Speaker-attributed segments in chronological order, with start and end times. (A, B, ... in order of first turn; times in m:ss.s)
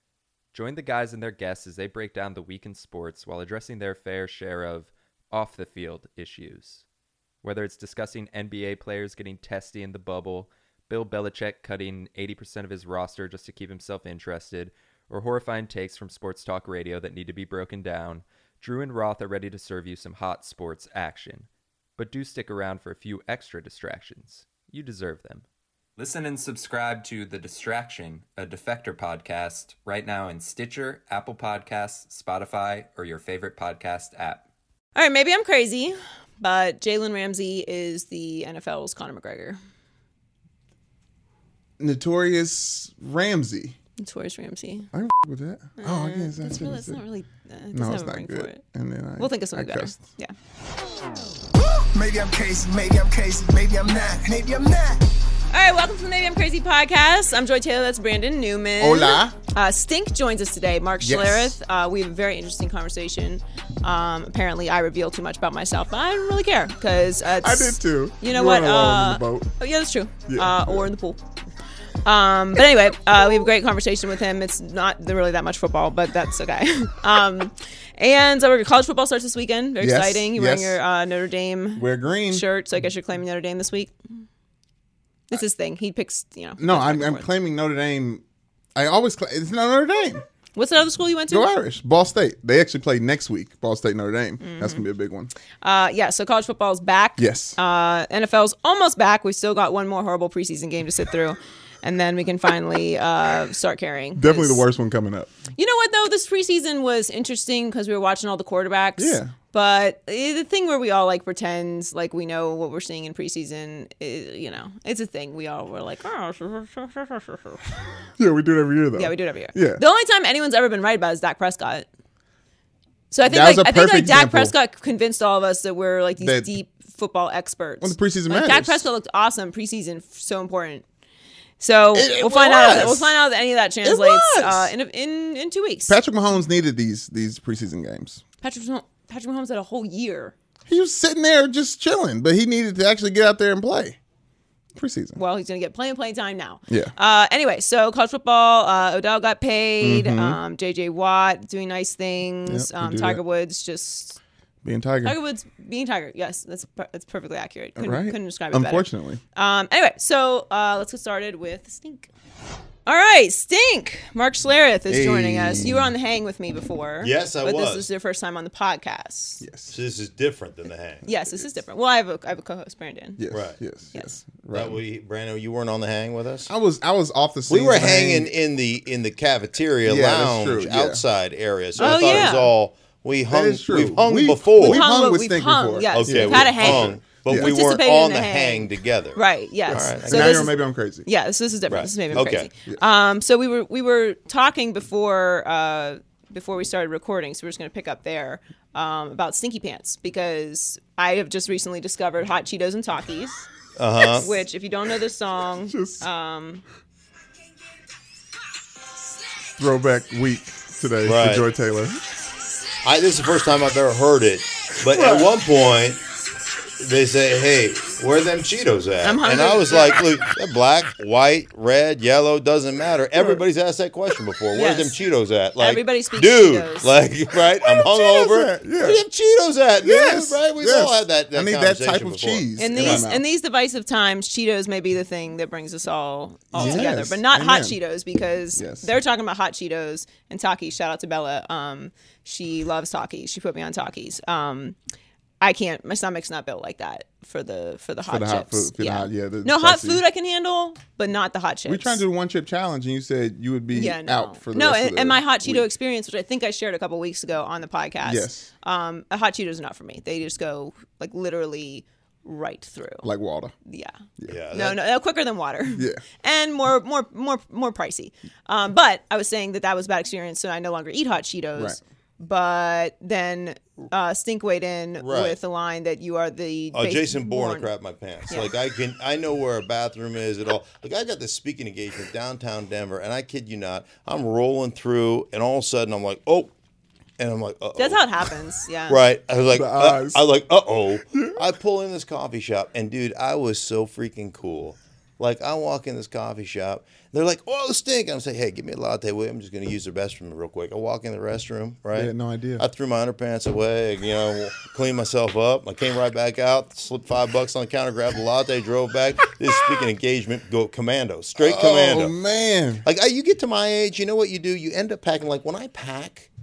0:00.5-0:06.8 A
0:07.4-0:25.4 A
0:26.0-0:34.4 A
0:34.9-0:39.6 B
0:41.8-0:43.8 C
0:44.0-0:44.9 B
0:44.9-0:47.0 C
0:45.8-0:48.6 B
0:47.7-0:50.0 C
0:49.2-0:50.3 B
0:51.6-0:55.0 D
0:55.5-1:11.2 B
0:58.8-0:59.4 C
1:01.0-1:01.5 C
1:07.4-1:09.5 C
1:10.3-1:10.9 C
1:12.0-1:23.9 B
1:19.8-1:20.8 C
1:21.8-1:22.4 C
1:25.3-1:27.2 B
1:26.6-1:28.2 C
1:28.7-1:30.2 C
1:30.5-1:31.5 B
1:31.3-1:35.3 C
1:34.4-1:34.8 B
1:35.6-1:44.6 B
1:37.2-1:37.6 C
1:44.1-1:45.3 C
1:45.6-1:57.8 B
1:49.0-1:49.3 C
1:58.2-1:59.8 C
1:58.9-2:01.9 B
2:03.1-2:10.8 B
2:03.2-2:04.5 C
2:06.2-2:06.5 C
2:07.8-2:08.9 C
2:11.6-2:16.0 B
2:11.9-2:13.2 C
2:13.8-2:14.7 C
2:15.9-2:18.2 C
2:18.4-2:20.3 B
2:20.7-2:24.0 C
2:24.8-2:25.2 C
2:25.2-2:34.2 B
2:26.7-2:26.9 C
2:29.8-2:30.4 C
2:32.4-2:33.2 C
2:34.6-2:35.2 C
2:35.0-2:42.1 B
2:37.8-2:39.2 C
2:42.8-2:49.4 B
2:44.9-2:45.9 C
2:47.0-2:47.9 E
2:49.4-2:49.8 C
2:49.7-2:51.1 E
2:51.0-2:53.2 B
2:53.2-2:54.8 C
2:53.3-2:53.6 E
2:53.9-2:54.2 B
2:54.5-2:56.5 E
2:56.5-2:58.3 C
2:57.5-3:04.8 E
2:59.8-3:01.0 C
3:01.8-3:02.4 C
3:01.8-3:02.5 B
3:03.3-3:07.5 C
3:04.6-3:23.4 B
3:05.9-3:10.5 E
3:09.7-3:11.1 C
3:11.7-3:12.5 E
3:12.1-3:12.8 C
3:23.8-3:24.3 E
3:24.0-3:26.6 B
3:25.7-3:26.0 C
3:29.6-3:32.0 C
3:31.0-3:31.5 E
3:32.8-3:36.0 E
3:34.9-3:35.3 C
3:36.8-3:53.1 E
3:39.0-3:40.0 B
3:44.5-3:44.9 B
3:45.6-3:46.9 B
3:47.6-3:49.0 C
3:49.8-3:53.2 C
3:52.6-4:04.8 B
3:56.5-3:57.8 C
3:56.6-3:56.9 E
3:58.6-3:58.9 C
4:05.4-4:12.0 B
4:08.0-4:10.0 C
4:11.7-4:15.6 C
4:13.7-4:23.1 B
4:18.0-4:18.5 C
4:23.0-4:23.5 C
4:23.6-4:24.0 B
4:24.2-4:24.8 E
4:24.5-4:37.7 B
4:25.7-4:26.0 C
4:35.0-4:35.4 E
4:36.7-4:46.5 E
4:47.2-4:48.0 E
4:47.8-4:49.0 B
4:48.9-5:12.1 E
4:49.5-4:50.2 C
5:01.9-5:02.6 C
5:11.4-5:12.8 C
5:12.8-5:16.3 E